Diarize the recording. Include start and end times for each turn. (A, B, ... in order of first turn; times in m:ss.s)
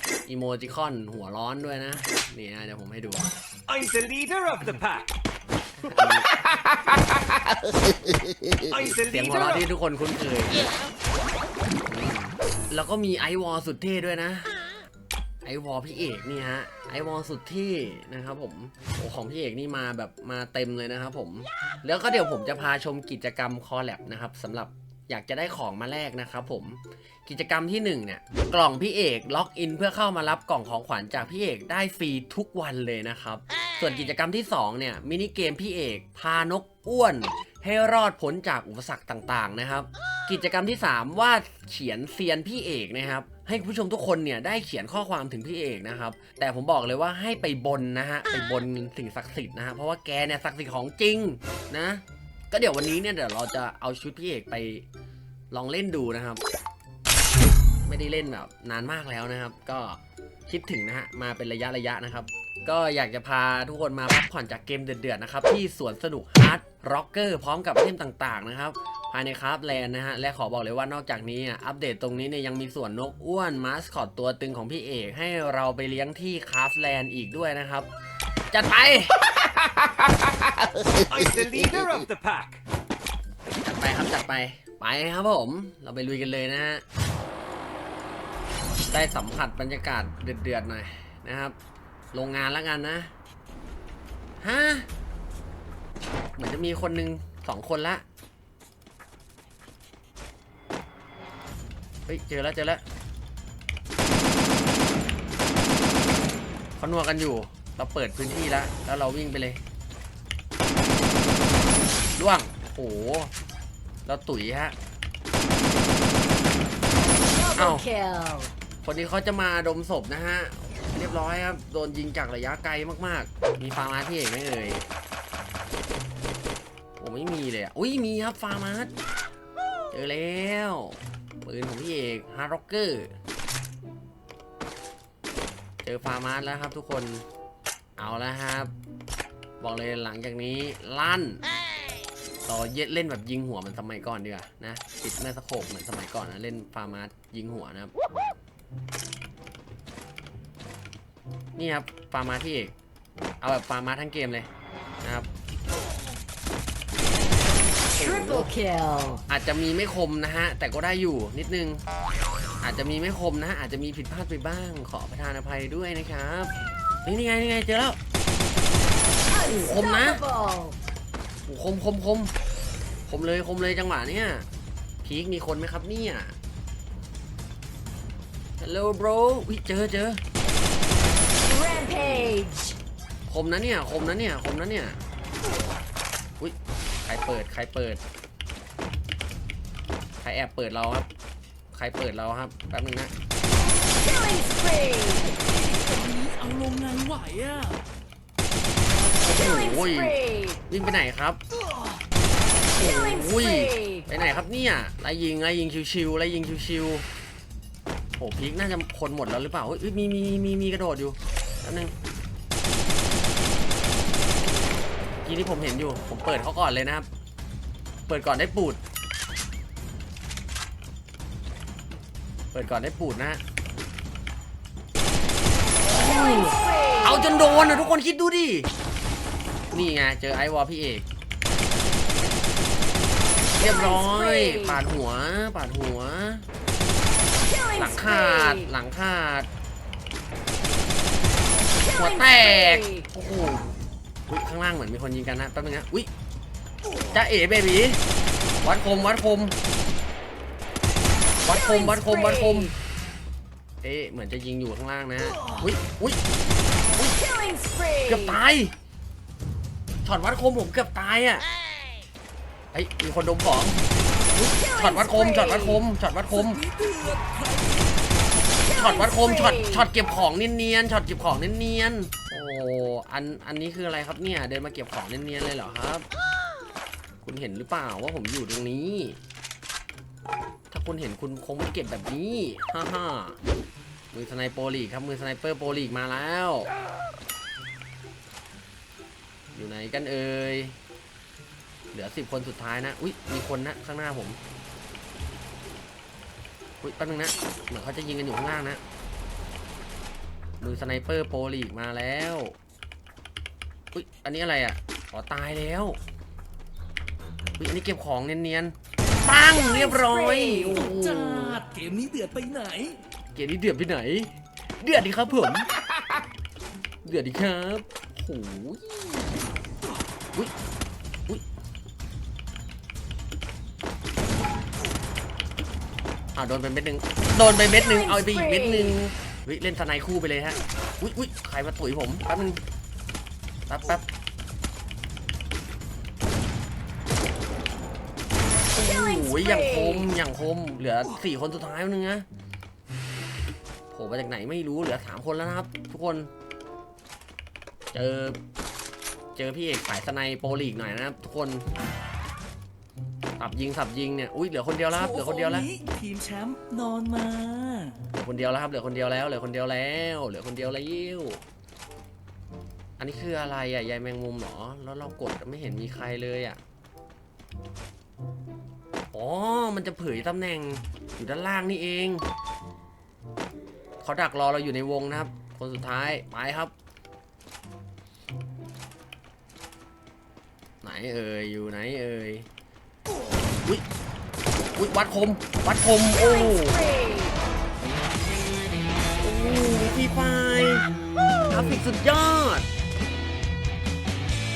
0:00.3-0:03.3 A
0:03.7-0:05.1 B
0:05.8-0:06.2 A
0:06.3-0:07.4 B
0:08.7-0:09.6 B
0:08.8-0:10.7 A
0:11.9-0:14.5 A
0:15.4-0:54.8 A
0:55.5-0:56.4 A
0:57.8-1:17.9 A
1:18.5-1:20.7 A
1:21.1-1:22.6 B
1:23.6-1:26.8 A
1:28.9-1:31.5 A
1:32.1-1:33.1 A
1:34.4-1:34.9 A
1:36.4-1:38.0 A
1:42.1-1:42.8 A
1:46.8-1:49.6 A
1:52.2-1:53.3 A
1:54.0-1:54.8 A
1:57.2-1:58.5 C
1:57.5-1:57.8 A
1:58.8-2:04.9 A
2:07.0-2:08.9 A
2:09.9-2:13.1 A
2:15.8-2:17.2 A
2:18.0-2:18.7 A
2:19.6-2:21.4 A
2:22.4-2:27.9 A
2:31.6-2:32.7 A
2:33.4-2:34.5 A
2:35.0-2:35.3 A
2:37.9-2:38.5 A
2:38.0-2:39.2 C
2:39.3-2:41.8 A
2:42.6-2:46.5 A
2:47.0-2:48.0 A
2:49.3-2:50.8 C
2:49.4-2:50.2 A
2:51.5-2:52.3 A
2:53.1-2:54.5 A
2:55.0-2:56.4 A
2:58.6-3:00.2 A
3:01.4-3:02.8 C
3:02.0-3:02.3 A
3:03.3-3:05.0 A
3:06.4-3:08.0 A
3:10.2-3:11.1 A
3:11.7-3:13.1 A
3:14.0-3:15.2 C
3:15.2-3:17.8 D
3:19.2-3:21.4 A
3:19.8-3:20.5 C
3:22.7-3:27.0 A
3:23.3-3:23.9 C
3:28.2-3:31.9 A
3:35.2-3:37.1 A
3:38.1-3:38.8 A
3:42.5-3:43.4 A
3:45.8-3:48.7 A
3:46.4-3:47.0 C
3:49.7-3:51.0 A
3:53.6-3:56.5 A
3:54.0-3:54.8 C
3:57.4-3:58.7 C
3:57.7-3:59.5 A
4:01.9-4:03.7 A
4:04.3-4:06.1 A
4:07.1-4:08.0 A
4:08.6-4:09.6 A
4:11.4-4:12.7 A
4:11.8-4:12.6 C
4:13.8-4:16.2 A
4:17.0-4:17.2 A
4:17.2-4:18.4 C
4:18.0-4:18.7 A
4:20.0-4:21.4 A
4:22.7-4:23.8 A
4:24.3-4:26.6 A
4:24.6-4:25.7 C
4:26.3-4:28.1 D
4:28.7-4:36.0 A
4:29.1-4:29.7 C
4:37.2-4:39.2 A
4:40.7-4:43.4 A
4:44.1-4:46.7 A
4:49.5-4:50.8 A
4:51.9-4:54.4 A
4:56.8-4:58.8 A
5:00.6-5:02.6 A
5:03.9-5:06.0 A
5:07.6-5:11.6 A
5:09.8-5:10.7 C
5:10.7-5:13.0 D
5:13.3-5:16.1 A
5:17.0-5:19.3 A
5:26.3-5:32.6 A
5:28.2-5:28.9 C
5:33.7-5:34.1 A
5:38.7-5:42.2 A
5:43.9-5:46.3 A
5:47.9-5:48.4 A
5:49.3-5:51.6 A
5:53.4-5:55.7 A
5:54.9-5:58.0 D
5:58.1-6:01.4 A
6:03.0-6:06.6 A
6:09.1-6:12.2 A
6:14.0-6:16.7 A
6:20.8-6:22.5 A
6:24.7-6:26.9 A
6:26.6-6:27.3 C
6:29.2-6:30.9 A
6:31.4-6:32.7 A